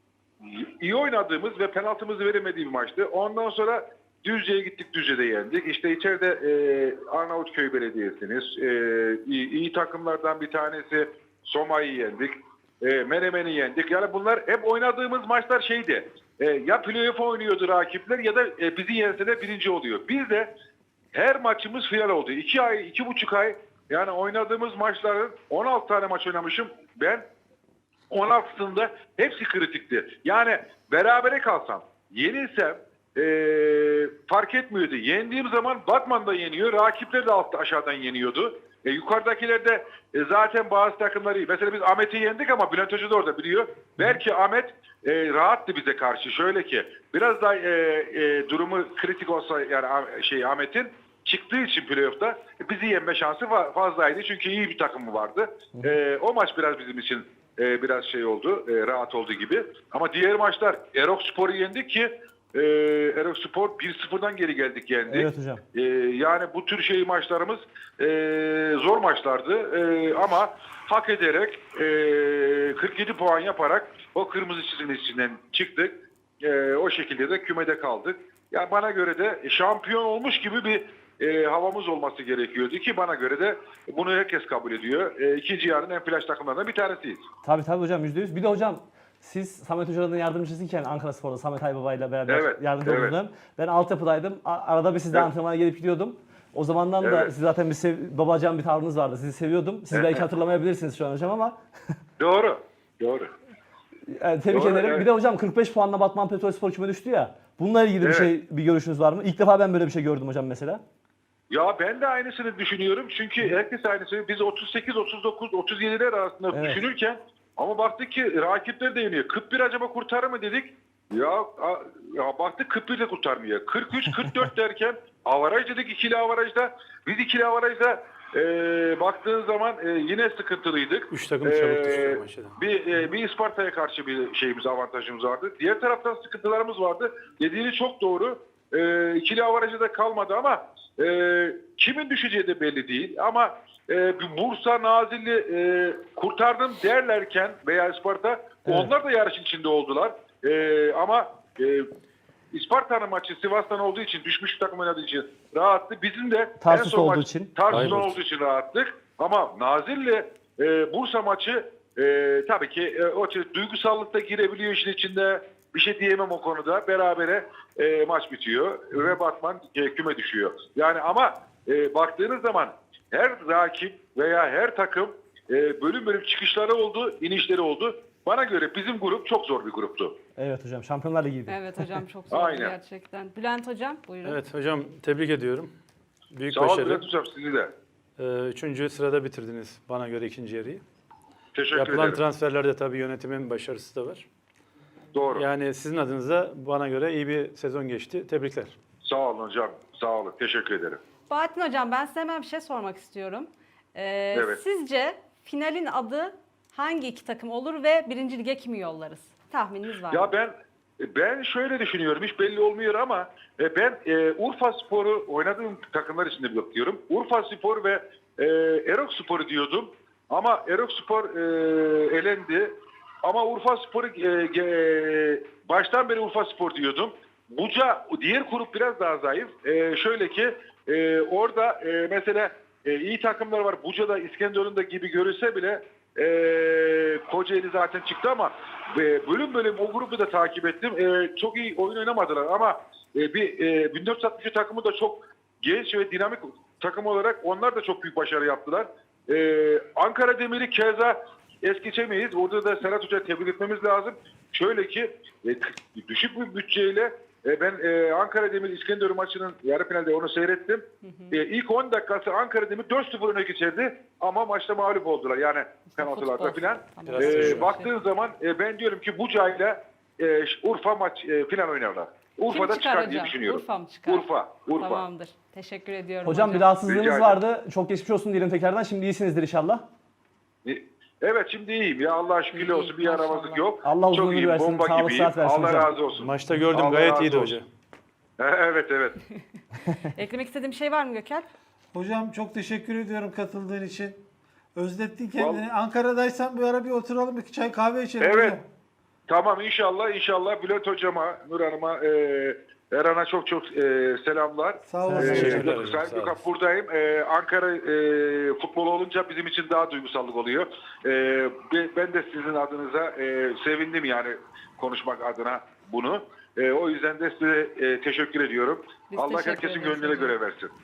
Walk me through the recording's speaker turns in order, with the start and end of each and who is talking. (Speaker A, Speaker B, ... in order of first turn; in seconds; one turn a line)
Speaker A: 0.4-20.5
Speaker A: 21.1-27.2
Speaker A: 28.1-87.2
Speaker B: 65.1-65.6
Speaker B: 87.4-101.6
Speaker A: 92.3-93.1
Speaker A: 97.0-97.3
Speaker A: 99.9-100.2
Speaker A: 102.2-103.3
Speaker B: 104.1-110.8
Speaker A: 104.5-105.0
Speaker A: 108.0-108.3
Speaker A: 111.5-151.9
Speaker B: 116.5-116.8
Speaker C: 131.1-132.5
Speaker B: 148.7-148.9
Speaker A: 152.5-180.1
Speaker B: 156.6-157.9
Speaker C: 157.7-158.2
Speaker B: 180.4-182.0
Speaker D: 181.5-184.4
Speaker A: 182.3-182.8
Speaker C: 184.2-185.7
Speaker C: 186.3-187.0
Speaker A: 186.5-187.7
Speaker C: 188.2-190.8
Speaker A: 191.5-192.2
Speaker C: 191.7-194.2
Speaker A: 195.1-195.5
Speaker C: 195.3-198.7
Speaker A: 199.0-201.0
Speaker D: 201.3-210.3
Speaker A: 204.3-204.6
Speaker A: 210.1-275.0
Speaker D: 261.0-261.4
Speaker D: 265.9-267.9
Speaker C: 267.0-267.8
Speaker D: 272.5-276.7
Speaker B: 276.2-279.8
Speaker A: 276.8-277.4
Speaker A: 280.6-287.5
Speaker D: 282.5-283.6
Speaker B: 283.8-285.9
Speaker C: 286.2-287.7
Speaker A: 288.4-289.2
Speaker D: 289.9-291.5
Speaker E: 291.9-294.2
Speaker E: 294.7-298.6
Speaker A: 295.4-295.6
Speaker A: 298.2-298.6
Speaker A: 299.3-320.7
Speaker E: 304.8-305.7
Speaker B: 305.1-305.6
Speaker C: 305.2-306.4
Speaker D: 319.1-320.4